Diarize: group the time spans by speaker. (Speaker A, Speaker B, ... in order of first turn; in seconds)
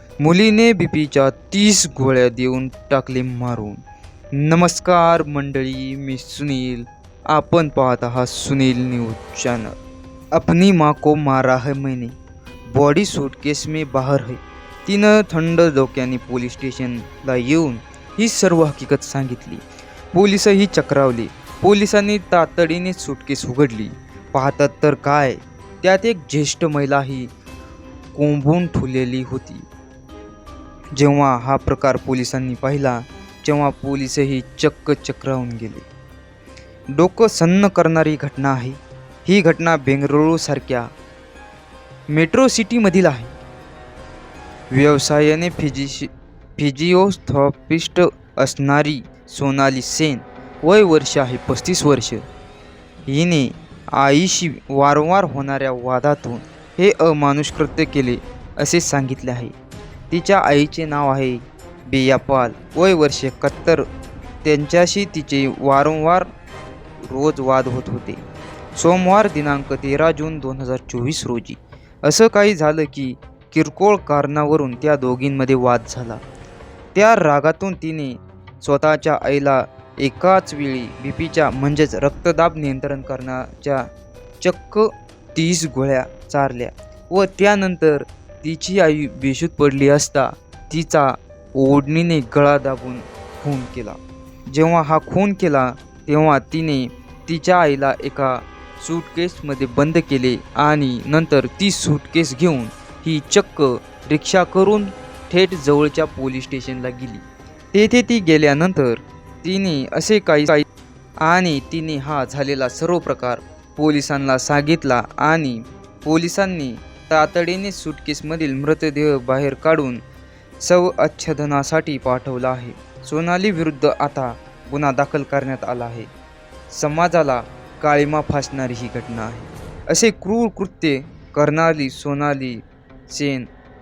Speaker A: 0.2-3.8, 4.4-9.7, 10.3-12.1, 12.7-19.6, 20.1-27.3, 28.1-29.6, 30.9-35.9, 36.9-40.9, 42.1-43.4, 44.7-52.2, 53.1-59.5, 60.1-63.9, 64.4-66.3, 67.0-68.2, 68.8-76.2, 77.0-83.9, 84.4-94.0, 94.5-110.7, 111.2-120.0, 120.6-126.1, 126.7-133.5